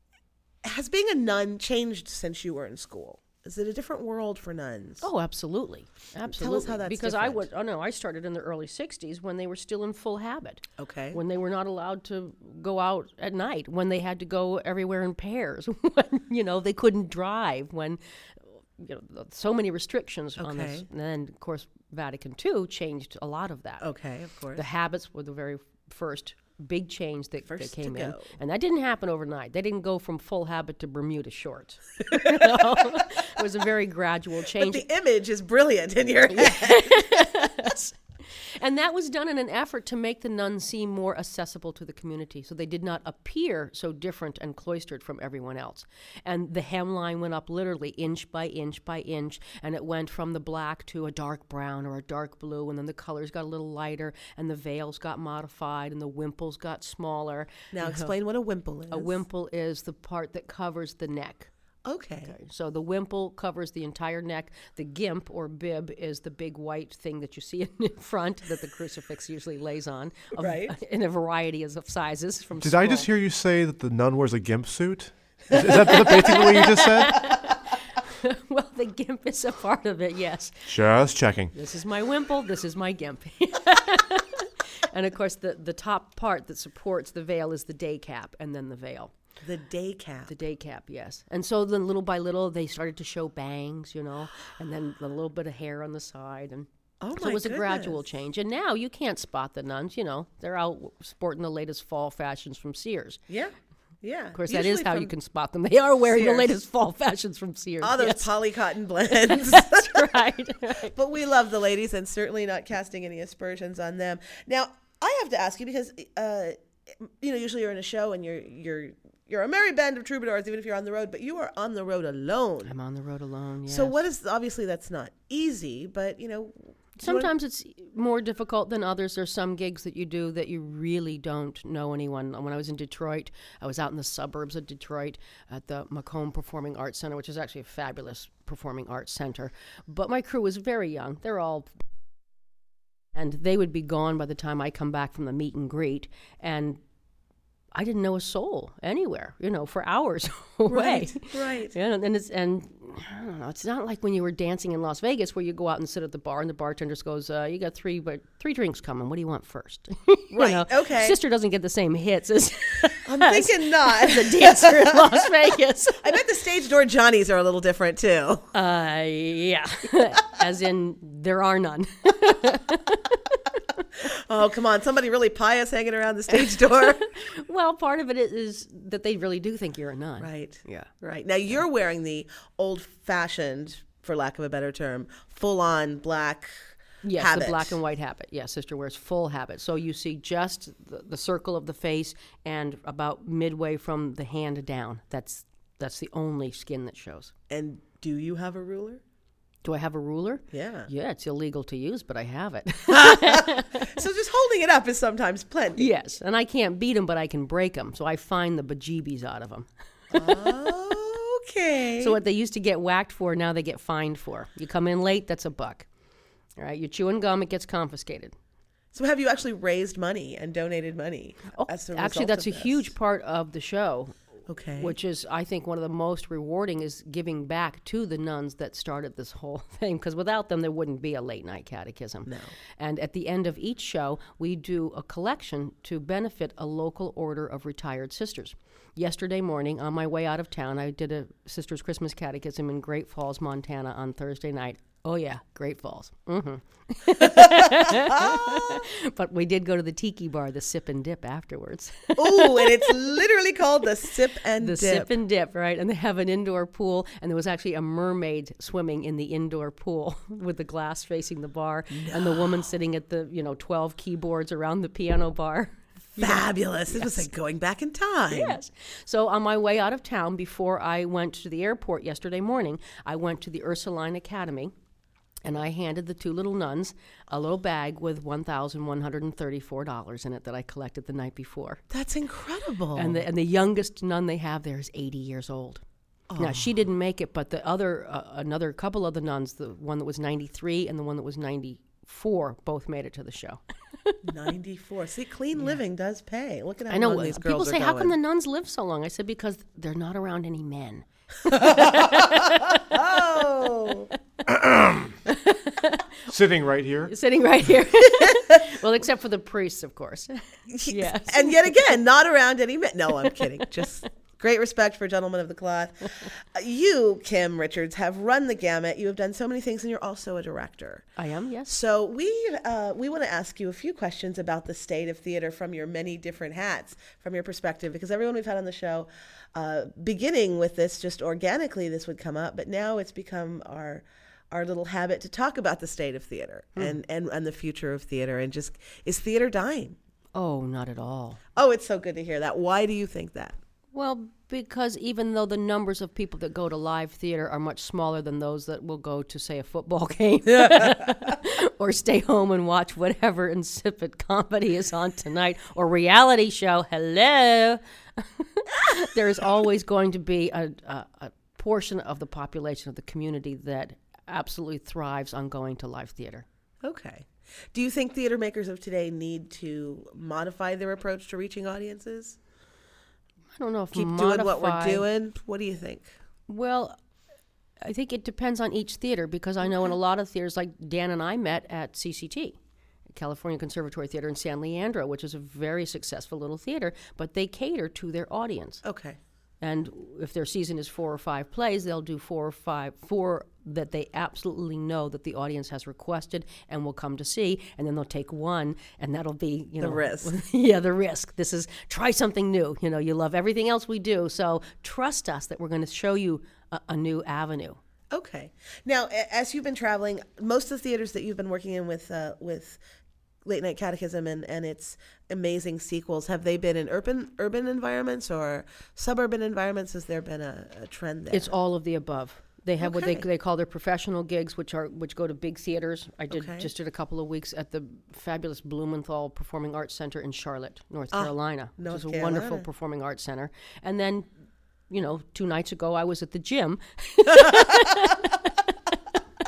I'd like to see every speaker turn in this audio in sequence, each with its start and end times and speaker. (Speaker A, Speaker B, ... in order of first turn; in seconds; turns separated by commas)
Speaker A: 0.6-5.0, Speaker B: 5.0-23.9, Speaker A: 6.3-7.5, Speaker A: 10.8-11.2, Speaker A: 20.4-20.9, Speaker A: 23.8-24.6, Speaker B: 24.5-34.8, Speaker A: 27.5-28.3, Speaker A: 32.1-33.0, Speaker A: 34.5-37.2, Speaker B: 36.3-58.1, Speaker A: 57.7-59.1, Speaker B: 58.9-61.5, Speaker A: 61.8-62.3, Speaker B: 62.3-73.1, Speaker A: 70.3-70.8, Speaker C: 72.6-77.4, Speaker A: 75.5-76.7, Speaker B: 75.6-80.7, Speaker C: 80.7-81.5, Speaker B: 81.5-89.1, Speaker A: 89.4-90.3, Speaker B: 90.3-103.2, Speaker A: 97.0-98.0, Speaker A: 103.3-105.1, Speaker B: 104.3-108.3, Speaker A: 106.1-106.5, Speaker A: 107.8-110.2, Speaker B: 109.2-110.9, Speaker A: 110.8-122.7, Speaker B: 122.7-124.0, Speaker A: 123.7-127.3, Speaker B: 127.0-141.7, Speaker B: 143.1-146.8, Speaker B: 147.7-166.1, Speaker A: 150.7-151.7, Speaker A: 160.3-161.2, Speaker A: 163.0-165.3, Speaker A: 166.0-168.5, Speaker B: 168.5-173.2, Speaker A: 174.0-177.0, Speaker B: 176.4-180.9, Speaker A: 180.2-187.8, Speaker B: 187.0-197.3, Speaker A: 197.5-199.0, Speaker B: 199.6-204.0, Speaker A: 200.5-200.9, Speaker A: 202.9-205.9, Speaker B: 205.8-210.5, Speaker A: 210.1-212.2, Speaker B: 212.0-215.9, Speaker B: 216.6-218.3, Speaker A: 218.9-222.9, Speaker B: 221.5-224.1, Speaker A: 224.5-224.9, Speaker B: 224.8-252.9, Speaker A: 232.3-232.5, Speaker A: 247.2-248.8, Speaker A: 252.2-255.2, Speaker B: 254.6-267.3, Speaker A: 261.9-262.7, Speaker A: 266.2-268.6, Speaker B: 268.3-274.7, Speaker B: 275.4-281.8, Speaker A: 281.9-283.2, Speaker B: 282.9-285.8, Speaker A: 286.3-286.7, Speaker B: 286.4-294.2, Speaker A: 294.2-298.1, Speaker B: 296.9-303.2, Speaker A: 301.5-304.1, Speaker C: 304.5-305.2, Speaker B: 305.3-306.2, Speaker C: 306.3-307.1, Speaker B: 307.1-311.8, Speaker A: 308.3-308.6, Speaker A: 310.7-321.1, Speaker B: 313.8-314.0, Speaker B: 321.2-321.7, Speaker A: 321.6-340.0, Speaker B: 340.3-341.4, Speaker A: 341.6-343.6, Speaker B: 343.9-366.4, Speaker A: 366.8-372.4, Speaker B: 373.6-375.0, Speaker A: 373.9-376.1, Speaker B: 376.5-376.9, Speaker B: 377.8-382.6, Speaker B: 383.1-388.8, Speaker A: 388.8-389.2, Speaker B: 389.6-407.8, Speaker A: 399.8-400.4, Speaker A: 408.1-412.8, Speaker A: 413.4-421.5, Speaker B: 421.3-434.3, Speaker A: 422.8-423.2, Speaker A: 426.3-426.7, Speaker A: 431.1-432.7, Speaker B: 434.9-438.9, Speaker A: 437.3-438.1